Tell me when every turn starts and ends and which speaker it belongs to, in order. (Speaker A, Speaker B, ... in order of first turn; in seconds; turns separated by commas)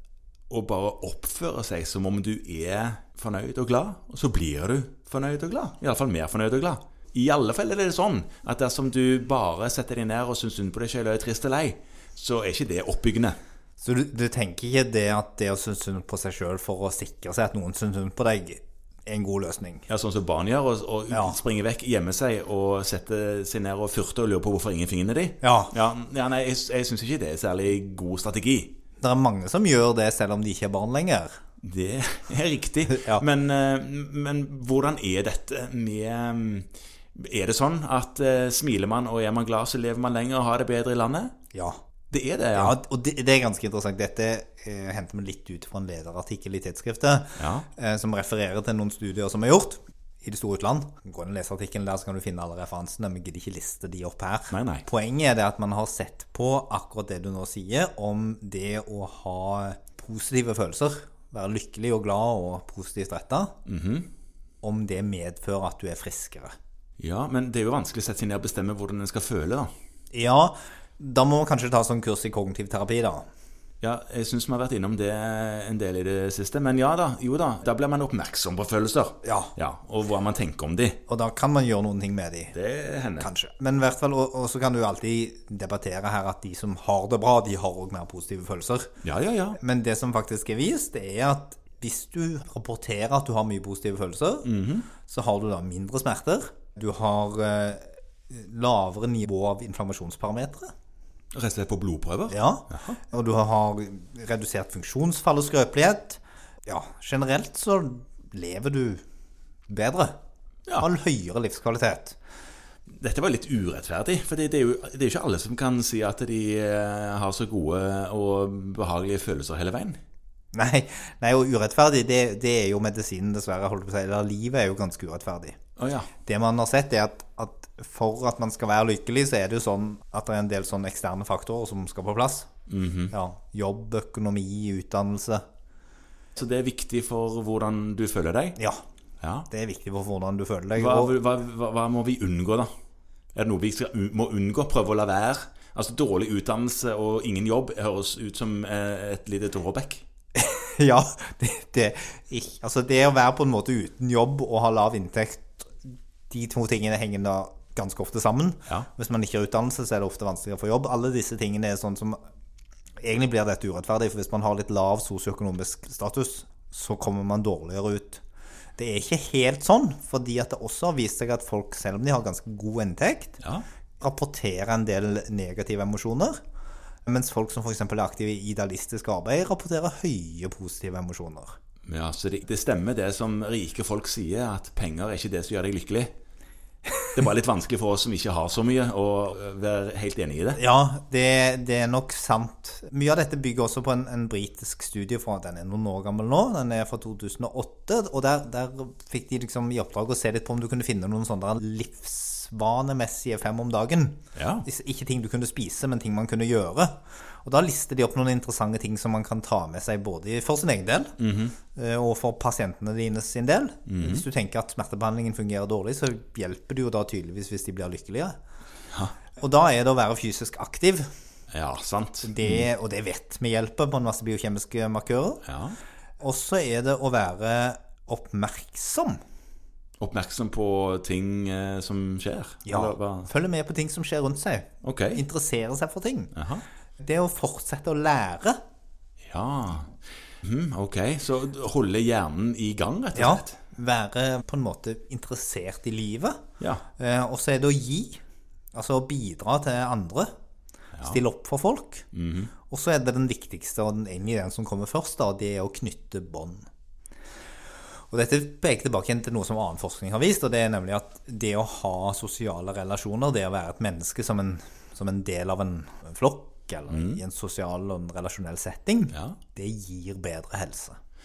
Speaker A: 0.5-13.4, Speaker B: 13.8-19.9, Speaker A: 19.9-28.8, Speaker B: 21.1-21.4, Speaker B: 25.4-25.7, Speaker B: 29.0-31.4, Speaker A: 31.6-41.3, Speaker B: 32.9-33.2, Speaker B: 41.5-41.8, Speaker A: 42.1-42.8, Speaker B: 42.5-63.5, Speaker A: 47.4-47.7, Speaker A: 54.5-54.9, Speaker A: 63.7-64.1, Speaker B: 64.6-66.5, Speaker A: 67.0-69.7, Speaker B: 70.1-73.3, Speaker A: 73.8-81.0, Speaker B: 79.2-79.5, Speaker B: 81.1-82.5, Speaker A: 82.5-83.3, Speaker B: 83.2-88.9, Speaker A: 89.0-89.6, Speaker B: 89.5-94.5, Speaker A: 94.5-94.9, Speaker B: 95.0-100.7, Speaker A: 101.3-103.0, Speaker B: 102.3-109.0, Speaker B: 109.7-110.2, Speaker B: 110.8-112.2, Speaker A: 112.9-120.0, Speaker B: 120.5-125.6, Speaker A: 125.8-126.1, Speaker B: 126.2-132.5, Speaker A: 132.7-133.1, Speaker B: 133.1-135.4, Speaker A: 136.4-138.6, Speaker B: 138.6-138.8, Speaker A: 139.2-139.5, Speaker B: 139.5-141.2, Speaker A: 140.8-142.7, Speaker A: 143.3-150.0, Speaker B: 150.3-155.7, Speaker B: 156.3-162.2, Speaker B: 163.0-168.2, Speaker B: 168.8-173.4, Speaker B: 174.0-176.4, Speaker B: 177.1-181.6, Speaker A: 181.9-186.1, Speaker A: 187.1-190.6, Speaker B: 190.6-211.2, Speaker A: 204.3-204.7, Speaker A: 211.2-211.6, Speaker B: 211.7-218.4, Speaker A: 213.9-214.2, Speaker B: 219.4-221.1, Speaker A: 221.5-222.6, Speaker B: 222.2-225.4, Speaker A: 225.5-225.8, Speaker B: 226.2-229.2, Speaker A: 230.0-233.3, Speaker B: 232.7-236.3, Speaker A: 234.8-235.2, Speaker A: 236.4-236.7, Speaker B: 237.0-238.6, Speaker A: 239.3-243.6, Speaker B: 243.2-246.4, Speaker B: 247.0-248.2, Speaker B: 248.7-250.3, Speaker B: 251.0-252.1, Speaker A: 252.1-252.5, Speaker B: 252.7-256.7, Speaker B: 258.1-271.0, Speaker A: 266.9-267.2, Speaker A: 269.1-269.4